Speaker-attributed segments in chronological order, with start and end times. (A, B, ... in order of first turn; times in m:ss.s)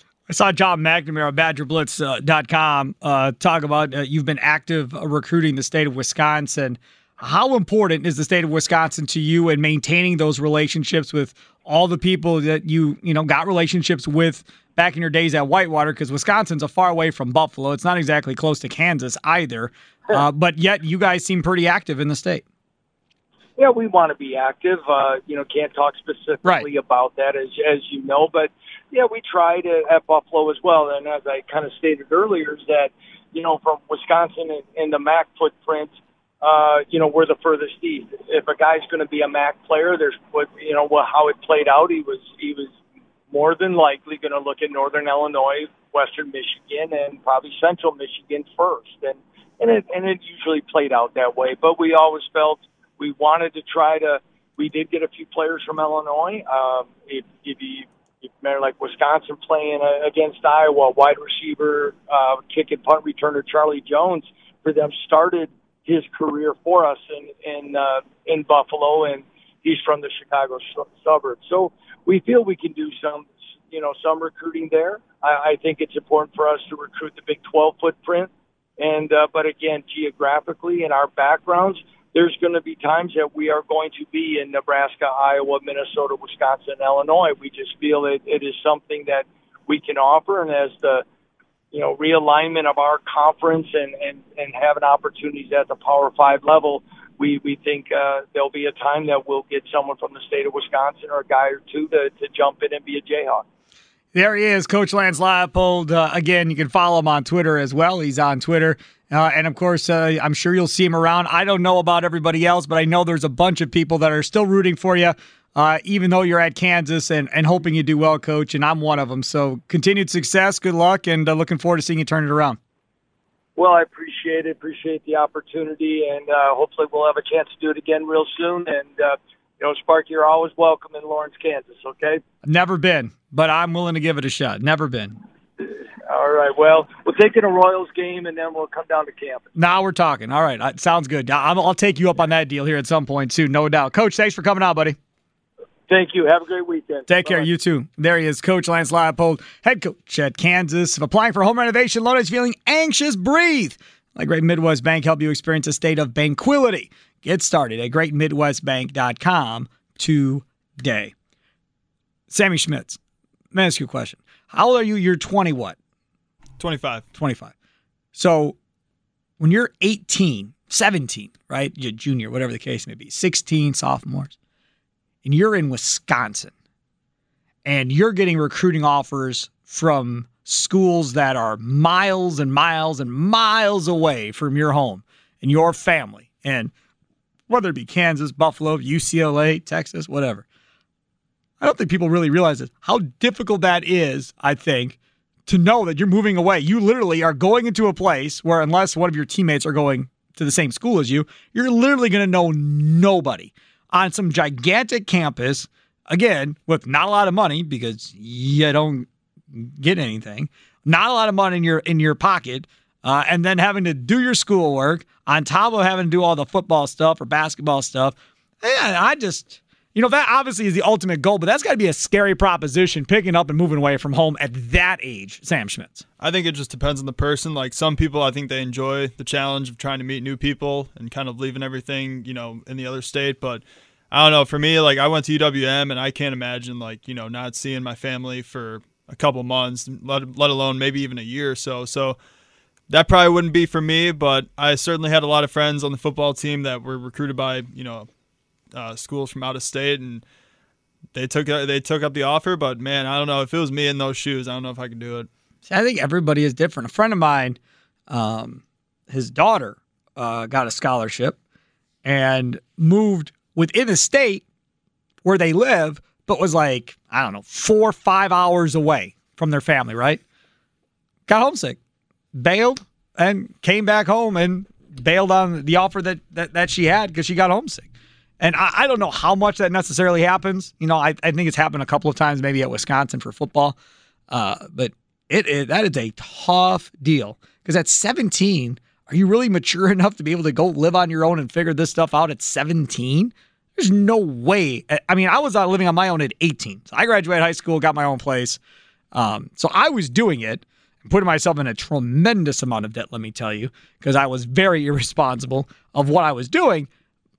0:00.3-0:22.4 A
0:23.6-0:42.7 B
0:43.3-1:31.0 B
1:31.7-1:43.4 B
1:44.1-2:02.6 A
2:03.6-2:12.2 B
2:12.4-2:15.2 A
2:15.6-2:19.5 B
2:19.6-2:25.0 A
2:25.9-2:27.5 B
2:27.1-2:41.1 A
2:42.3-2:43.0 A
2:43.5-2:45.8 A
2:46.6-2:47.0 C
2:47.1-2:47.5 A
2:48.1-2:48.6 A
2:49.4-2:54.3 A
2:55.2-2:56.5 A
2:57.6-3:06.7 A
3:07.5-3:10.4 A
3:11.6-3:46.0 A
3:46.2-4:02.2 C
4:02.9-4:08.1 C
4:08.7-4:10.2 C
4:11.1-4:15.3 C
4:15.7-4:17.6 A
4:18.1-4:21.4 A
4:22.0-4:24.4 A
4:25.2-4:30.2 A
4:31.3-4:31.8 A
4:32.3-4:37.9 A
4:38.4-4:43.8 A
4:44.3-4:58.6 A
4:59.1-5:06.9 A